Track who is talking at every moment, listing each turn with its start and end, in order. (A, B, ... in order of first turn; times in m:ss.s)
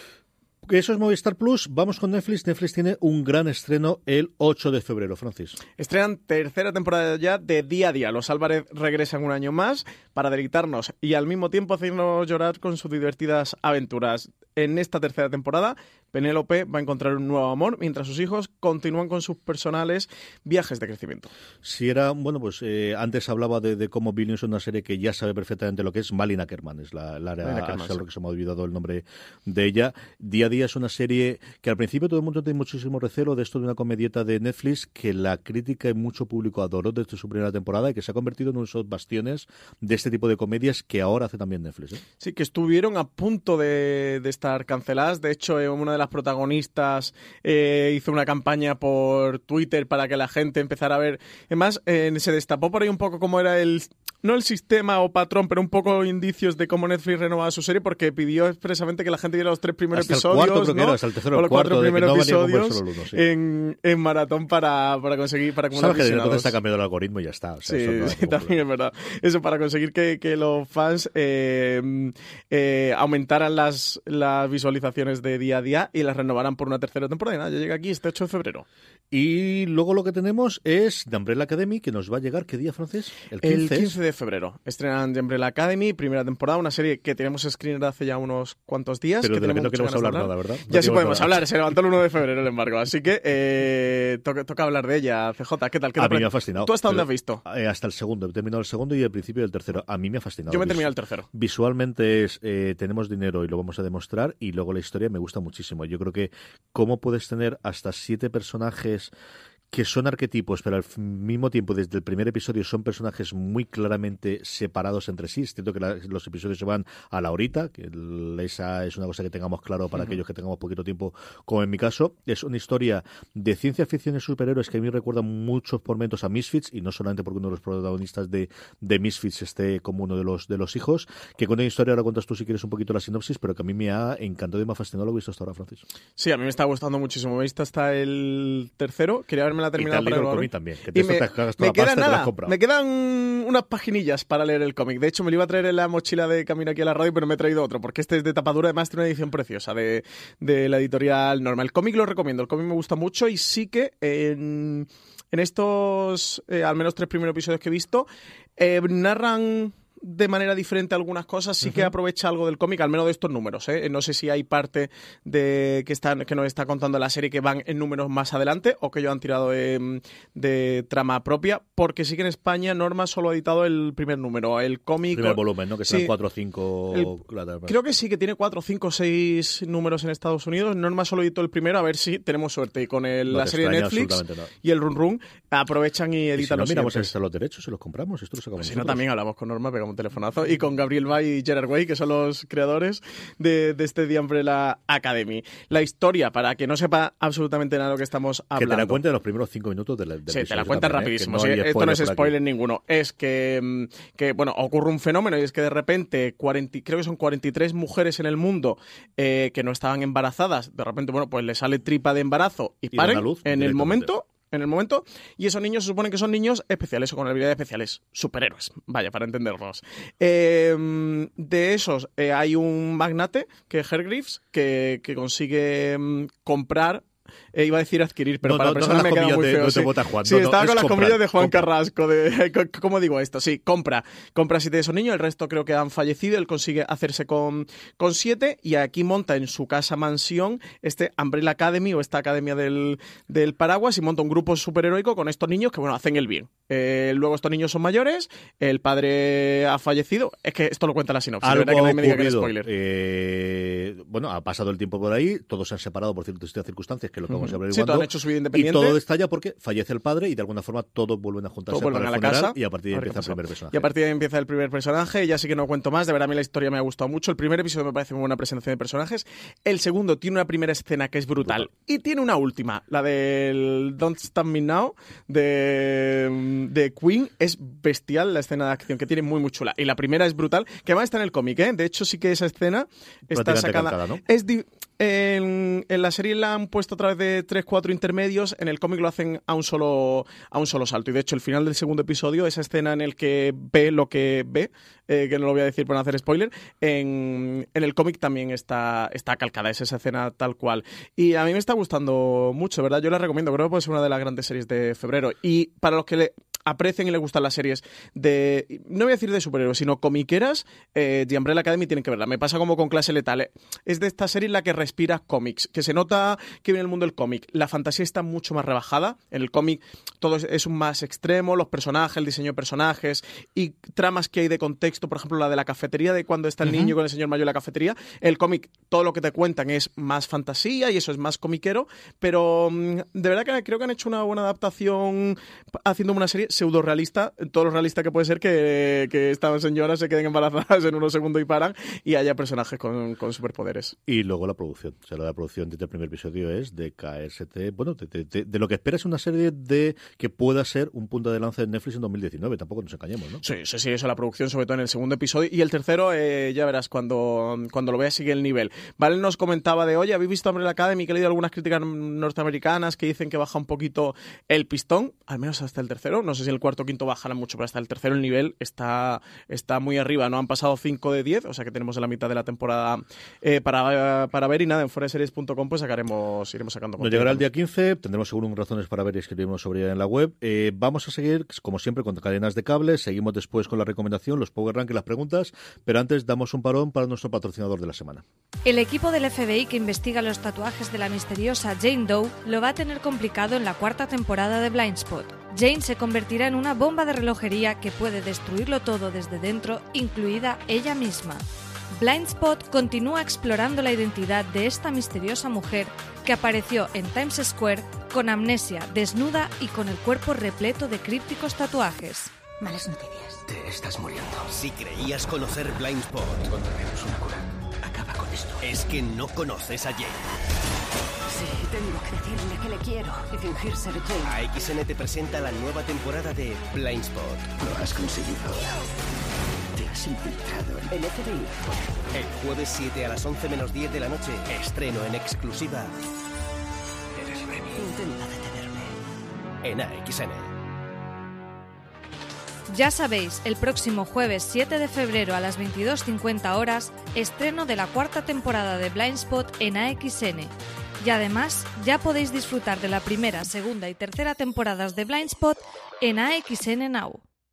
0:00.6-0:05.6 A
0:05.8-0:21.3 B
0:21.6-0:42.0 A
0:27.4-0:28.0 B
0:42.2-1:06.5 B
0:59.9-1:03.2 A
1:05.7-1:08.6 A
1:07.6-1:18.6 B
1:19.1-1:23.9 A
1:23.4-1:37.4 B
1:29.2-1:31.4 A
1:36.0-1:49.1 A
1:40.5-1:41.3 B
1:49.7-2:15.8 A
2:16.2-2:38.0 B
2:19.8-2:22.6 A
2:38.6-2:56.1 B
2:55.1-2:57.8 A
2:57.6-3:07.1 B
3:03.3-3:04.5 A
3:06.4-3:09.0 A
3:08.6-3:19.0 B
3:18.6-3:22.3 A
3:20.3-4:12.7 B
3:32.9-3:34.1 A
3:48.4-3:51.7 A
4:11.4-4:23.9 A
4:17.3-4:19.0 B
4:21.7-5:43.9 B
4:31.4-4:31.7 A
4:43.3-4:44.2 A
5:26.6-5:26.9 A
5:44.0-5:53.4 A
5:53.4-6:17.4 B
6:17.0-6:28.2 A
6:28.6-6:41.4 C
6:42.0-6:52.3 C
6:52.6-6:53.6 D
6:53.6-6:57.4 E
6:57.8-6:58.8 D
6:58.6-7:00.2 E
7:01.3-7:04.3 D
7:04.2-7:07.8 E
7:07.8-7:08.6 D
7:09.9-7:11.5 D
7:12.1-7:15.9 E
7:17.2-7:18.1 E
7:17.7-7:18.8 D
7:19.6-7:20.5 E
7:22.7-7:30.5 C
7:31.0-7:37.2 C